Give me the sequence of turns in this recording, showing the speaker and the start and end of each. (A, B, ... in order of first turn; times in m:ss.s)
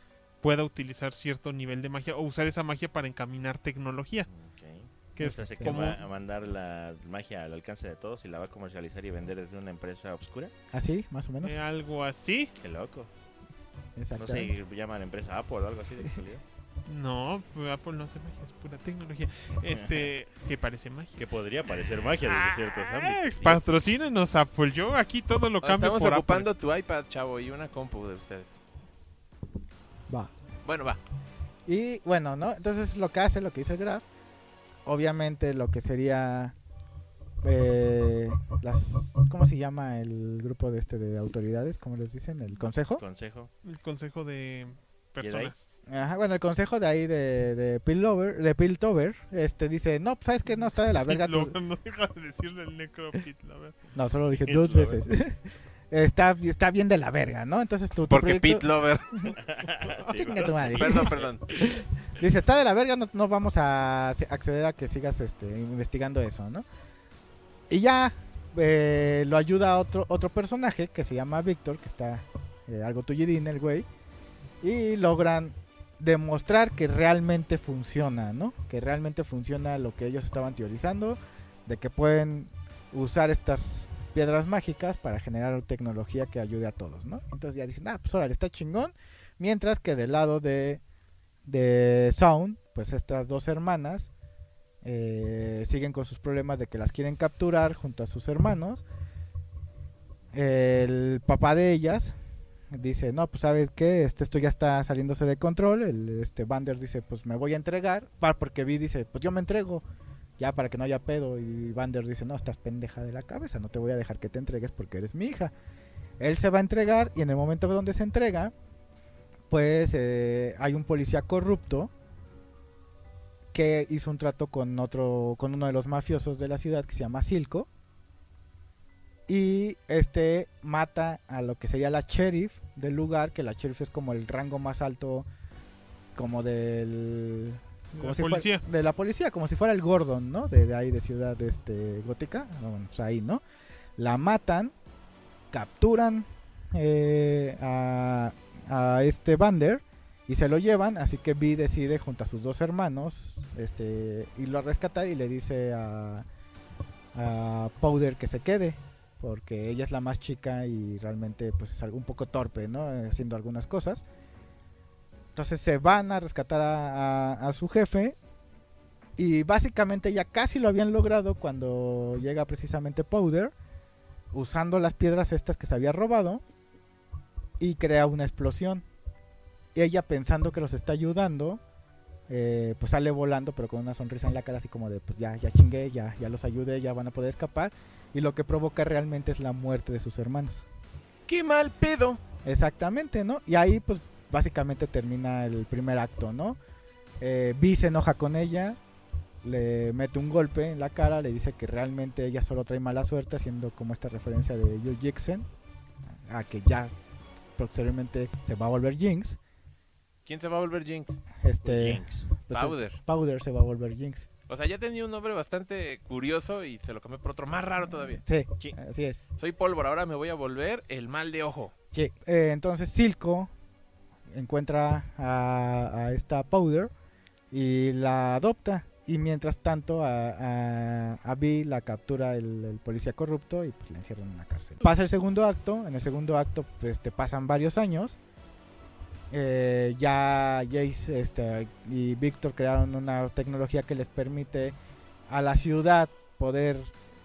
0:00.4-0:04.3 A
0:04.3-0:10.5 B
0:05.2-0:06.0 A
0:05.2-0:06.0 C
0:10.7-0:11.6 C
0:11.4-0:12.5 A
0:12.6-0:13.1 B
0:14.0-0:14.5 C
0:14.2-0:16.4 B
0:16.9-0:21.2 A
0:19.6-0:20.1 B
0:21.2-0:23.6 B
0:21.7-0:26.5 A
0:25.6-0:28.5 D
0:30.6-0:31.0 D
0:31.7-0:34.0 C
0:34.8-0:36.6 C
0:37.4-0:43.0 C
0:43.0-0:43.5 B
0:43.6-0:45.8 A
0:45.2-0:45.5 B
0:45.9-0:51.6 C
0:50.8-0:53.8 A
0:53.9-0:55.4 C
0:54.4-0:55.0 B
0:55.9-0:59.3 C
0:58.1-0:59.2 D
0:59.3-1:01.8 B
1:00.1-1:06.6 C
1:00.4-1:01.4 D
1:07.7-1:13.8 C
1:14.6-1:30.8 C
1:31.4-1:34.1 C
1:34.8-1:38.8 C
1:40.3-1:42.2 C
1:42.7-1:49.8 C
1:50.4-1:55.5 C
1:56.2-1:58.5 C
1:59.5-2:01.9 C
2:03.5-2:07.7 C
2:09.3-2:15.3 C
2:16.2-2:23.4 C
2:18.0-2:18.6 A
2:24.0-2:24.7 C
2:25.5-2:36.2 C
2:37.1-2:44.0 C
2:45.3-2:48.2 C
2:49.2-2:53.5 C
2:54.3-2:56.4 C
2:57.6-2:58.8 C
2:59.7-3:01.6 C
3:02.3-3:10.6 C
3:11.3-3:12.2 D
3:12.4-3:16.6 C
3:17.2-3:18.8 C
3:19.4-3:25.5 C
3:26.2-3:26.9 C
3:27.6-3:29.4 C
3:30.2-3:31.2 D
3:31.4-3:34.3 C
3:31.6-3:32.2 B
3:32.5-3:33.0 D
3:34.5-3:38.2 D
3:37.9-3:39.2 C
3:39.4-3:41.7 D
3:41.9-3:43.5 C
3:44.3-3:46.9 C
3:47.5-3:58.2 C
3:59.3-4:04.7 C
4:05.3-4:06.9 C